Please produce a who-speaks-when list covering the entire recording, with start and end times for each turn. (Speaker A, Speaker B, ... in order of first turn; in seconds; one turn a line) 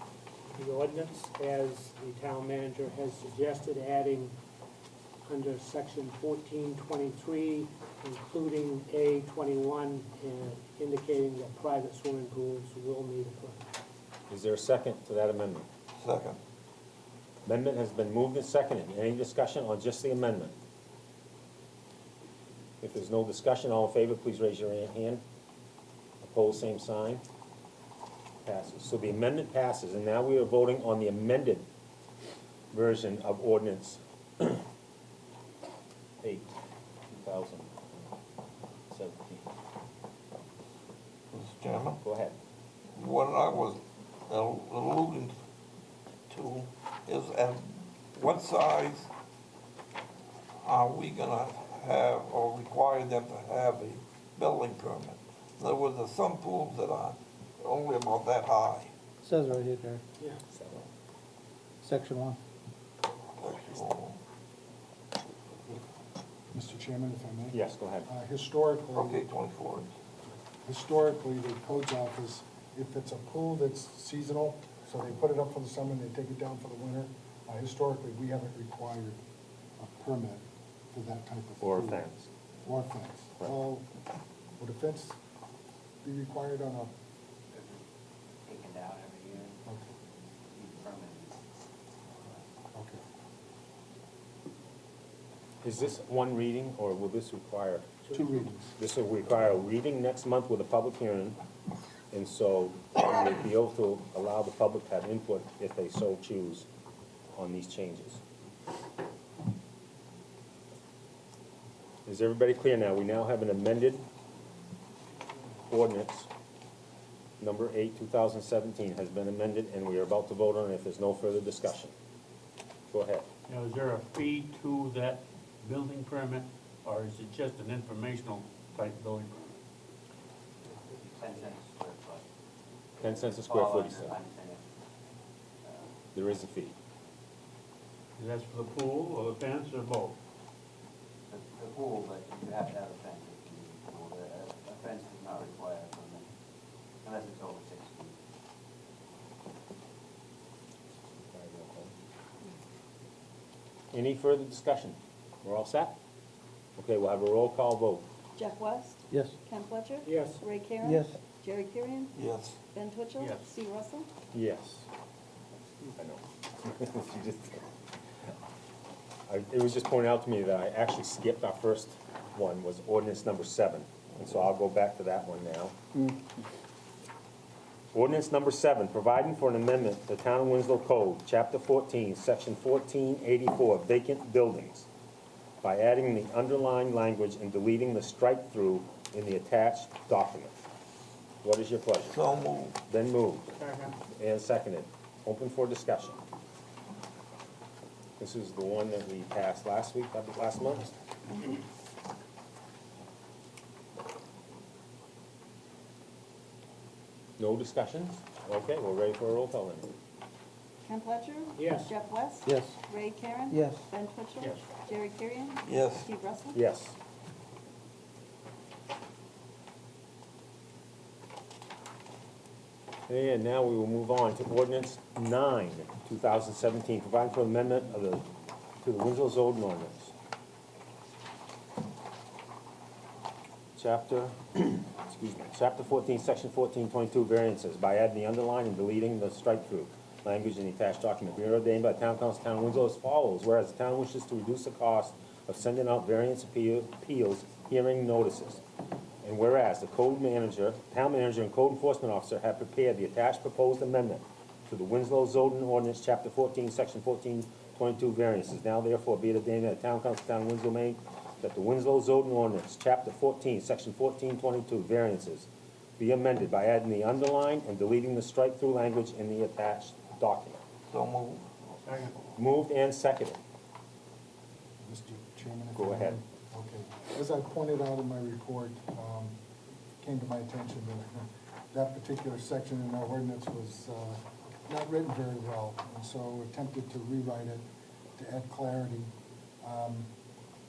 Speaker A: 0.5-4.3
Speaker A: 5.2-13.7
Speaker B: 14.3-15.7
Speaker C: 16.0-16.4
Speaker B: 17.4-20.5
Speaker B: 22.8-25.2
Speaker B: 26.2-27.2
Speaker B: 28.4-31.7
Speaker B: 32.7-34.6
Speaker B: 36.2-36.5
Speaker B: 37.1-37.7
Speaker B: 38.9-39.5
Speaker C: 41.3-42.0
Speaker B: 42.0-42.4
Speaker C: 42.9-45.3
Speaker C: 46.3-49.1
Speaker C: 50.6-58.9
Speaker D: 59.2-60.0
Speaker D: 61.8-62.4
Speaker C: 63.4-64.2
Speaker E: 66.5-69.3
Speaker B: 67.5-68.1
Speaker C: 68.9-69.9
Speaker E: 70.6-79.2
Speaker E: 79.8-82.1
Speaker B: 81.6-82.2
Speaker E: 82.6-83.9
Speaker E: 84.6-85.2
Speaker E: 86.0-86.9
Speaker F: 88.5-89.4
Speaker E: 89.7-89.9
Speaker F: 90.5-91.2
Speaker E: 92.7-93.0
Speaker B: 95.6-97.9
Speaker A: 98.0-98.5
Speaker E: 98.1-98.7
Speaker B: 98.8-101.4
Speaker B: 102.1-106.7
Speaker B: 107.3-108.2
Speaker B: 112.0-114.0
Speaker B: 115.7-116.3
Speaker B: 117.4-121.9
Speaker B: 122.9-123.2
Speaker G: 123.5-129.5
Speaker F: 131.0-132.2
Speaker B: 133.0-134.2
Speaker F: 133.0-134.4
Speaker B: 136.1-136.7
Speaker G: 138.2-140.2
Speaker F: 141.3-146.2
Speaker F: 147.0-148.1
Speaker B: 151.3-151.9
Speaker B: 153.9-155.9
Speaker B: 156.8-158.1
Speaker H: 158.4-162.2
Speaker A: 160.0-160.4
Speaker D: 160.8-161.1
Speaker C: 162.1-162.6
Speaker H: 162.7-164.1
Speaker G: 163.2-163.5
Speaker B: 164.3-164.9
Speaker B: 165.9-167.6
Speaker B: 169.3-175.8
Speaker B: 177.9-184.9
Speaker B: 185.6-190.5
Speaker B: 191.4-192.2
Speaker C: 192.0-192.8
Speaker B: 192.9-193.5
Speaker B: 194.1-196.2
Speaker B: 198.2-200.9
Speaker B: 207.4-209.9
Speaker H: 210.8-216.6
Speaker A: 211.6-211.9
Speaker D: 212.5-212.7
Speaker D: 213.5-213.8
Speaker C: 215.7-216.1
Speaker B: 216.5-216.9
Speaker B: 223.1-228.3
Speaker B: 228.8-230.1
Speaker B: 233.8-248.6
Speaker B: 249.2-265.5
Speaker B: 266.0-270.6
Speaker C: 270.9-271.5
Speaker G: 271.9-272.1
Speaker B: 272.4-273.4
Speaker E: 274.8-279.4
Speaker B: 275.8-276.2
Speaker E: 280.0-289.1
Speaker E: 289.6-290.1